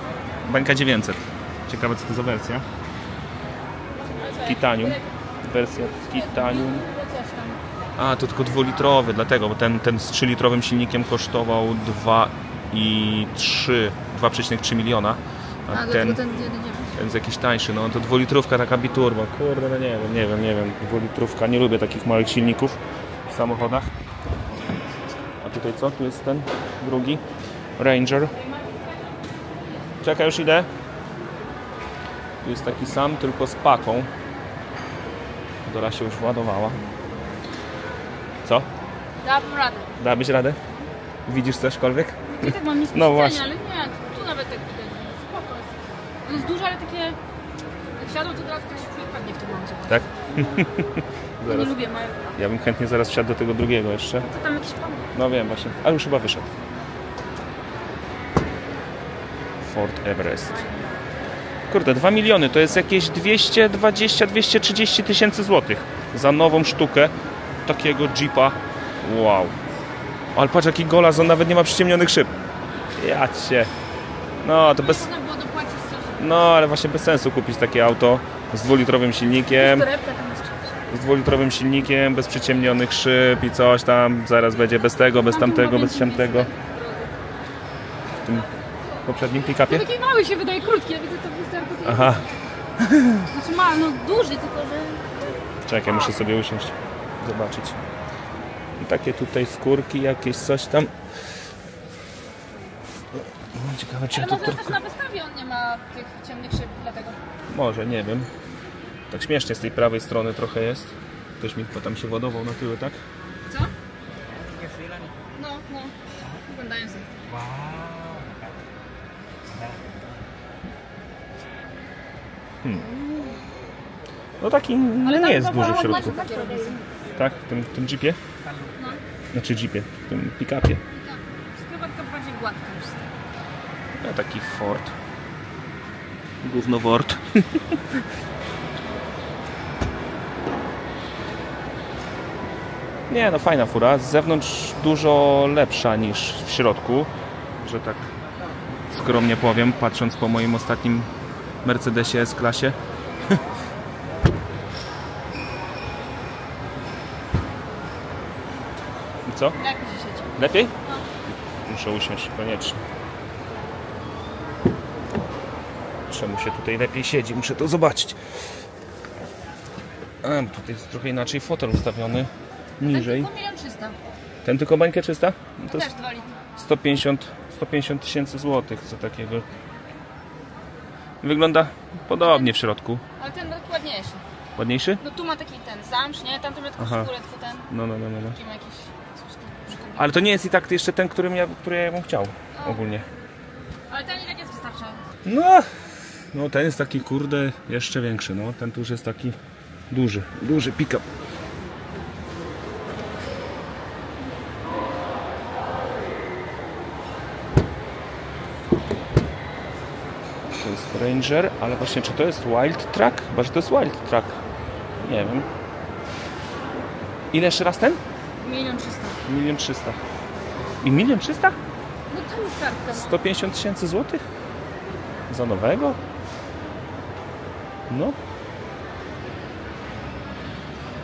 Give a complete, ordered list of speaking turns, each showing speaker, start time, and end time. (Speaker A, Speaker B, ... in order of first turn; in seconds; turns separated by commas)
Speaker A: 0.4-2.6, Speaker B: 4.1-5.0, Speaker A: 4.4-6.8, Speaker B: 6.2-7.6, Speaker A: 8.0-16.2, Speaker B: 15.7-16.9, Speaker A: 16.9-23.9, Speaker A: 25.4-27.2, Speaker A: 27.8-28.3, Speaker A: 30.0-30.7, Speaker A: 32.4-34.1, Speaker A: 35.6-36.8, Speaker B: 39.2-39.9, Speaker A: 40.0-40.6, Speaker A: 41.3-43.5, Speaker B: 42.3-47.2, Speaker B: 48.0-50.1, Speaker A: 49.9-51.8, Speaker B: 51.5-52.4, Speaker A: 52.4-54.3, Speaker B: 54.2-55.1, Speaker A: 55.1-56.5, Speaker A: 59.6-60.6, Speaker B: 60.4-61.1, Speaker A: 61.7-67.1, Speaker A: 67.7-69.5, Speaker A: 70.3-72.3, Speaker A: 73.0-73.7, Speaker A: 74.4-75.1, Speaker B: 74.7-76.4, Speaker A: 76.2-79.9, Speaker B: 79.5-80.7, Speaker A: 80.9-86.5, Speaker B: 85.1-87.2, Speaker A: 88.2-88.5, Speaker A: 89.0-89.9, Speaker B: 89.7-92.2, Speaker A: 91.8-92.2, Speaker A: 92.8-93.3, Speaker B: 93.3-95.3, Speaker A: 95.7-97.8, Speaker B: 95.8-96.1, Speaker A: 98.8-100.9, Speaker A: 103.4-104.8, Speaker B: 104.1-107.2, Speaker A: 107.5-108.3, Speaker A: 109.1-113.0, Speaker B: 113.5-113.7, Speaker B: 115.3-117.1, Speaker A: 122.6-123.0, Speaker A: 124.4-126.2, Speaker B: 125.0-126.9, Speaker A: 127.1-128.2, Speaker B: 128.7-129.0, Speaker A: 129.3-130.8, Speaker B: 130.9-133.1, Speaker A: 134.0-134.9, Speaker A: 136.4-138.0, Speaker A: 143.1-148.1, Speaker A: 148.9-151.1, Speaker A: 151.6-152.8, Speaker A: 159.2-159.6, Speaker B: 159.6-160.6, Speaker A: 160.3-160.7, Speaker A: 161.3-162.8, Speaker A: 166.1-168.2, Speaker A: 170.2-173.3, Speaker B: 172.8-174.0, Speaker A: 174.4-175.9, Speaker B: 175.7-176.3, Speaker A: 176.6-179.4, Speaker A: 181.2-183.0, Speaker B: 182.2-182.5, Speaker B: 183.2-184.2, Speaker A: 184.6-185.0, Speaker B: 185.0-187.7, Speaker A: 186.8-187.1, Speaker A: 187.7-188.4, Speaker B: 188.3-190.2, Speaker A: 189.9-193.1, Speaker B: 192.5-192.8, Speaker B: 193.9-195.1, Speaker A: 195.2-195.7, Speaker A: 196.3-199.3, Speaker A: 199.9-201.0, Speaker A: 210.5-214.4, Speaker A: 215.0-215.5, Speaker A: 217.3-218.0, Speaker B: 218.4-219.2, Speaker A: 219.2-220.0, Speaker A: 220.8-221.6, Speaker B: 222.1-223.2, Speaker A: 222.9-224.2, Speaker A: 225.3-226.0, Speaker A: 227.9-228.2